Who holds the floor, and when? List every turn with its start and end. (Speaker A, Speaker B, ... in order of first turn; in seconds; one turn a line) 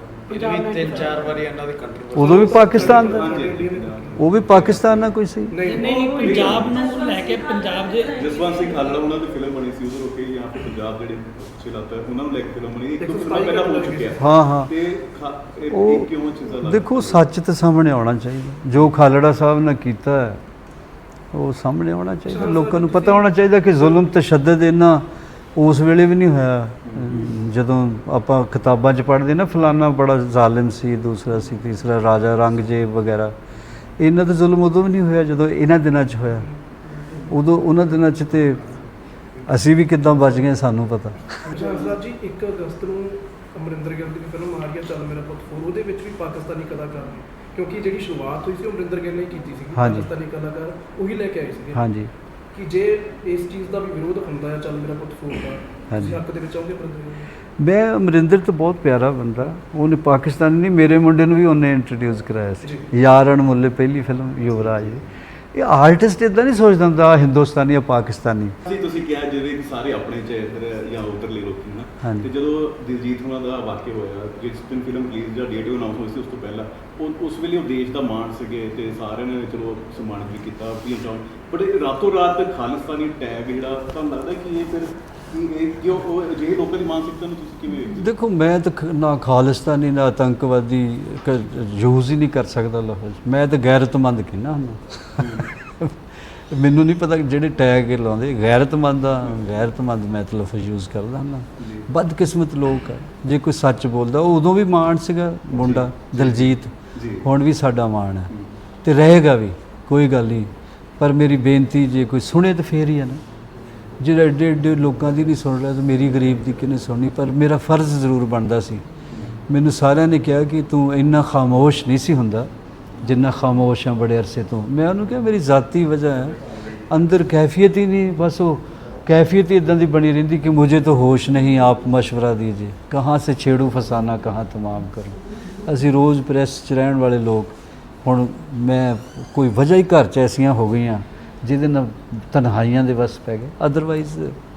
Speaker A: 0.3-2.4
Speaker B: 0.3-1.0
Speaker C: 2.1-3.3
Speaker D: 2.1-4.3
Speaker E: 2.5-5.1
Speaker C: 4.2-5.6
Speaker D: 5.5-6.9
Speaker B: 5.7-8.3
Speaker E: 6.0-6.8
Speaker E: 8.0-17.3
Speaker D: 13.0-14.2
Speaker C: 14.2-14.7
Speaker C: 15.7-16.1
Speaker C: 16.6-20.4
Speaker C: 21.3-33.3
Speaker D: 22.3-23.3
Speaker E: 26.9-27.2
Speaker C: 34.0-36.5
Speaker C: 37.3-38.6
Speaker C: 39.5-41.5
Speaker D: 41.5-51.9
Speaker C: 49.7-50.1
Speaker C: 51.7-52.1
Speaker D: 52.5-57.3
Speaker C: 55.9-56.2
Speaker C: 57.6-68.6
Speaker D: 62.6-62.9
Speaker E: 68.7-88.1
Speaker C: 72.0-72.3
Speaker C: 88.0-96.0
Speaker E: 95.2-95.5
Speaker C: 96.5-108.3
Speaker E: 101.6-101.9
Speaker E: 105.5-107.3
Speaker C: 108.8-113.2
Speaker C: 114.0-118.8
Speaker C: 119.5-122.5
Speaker C: 123.0-126.4
Speaker C: 126.9-144.4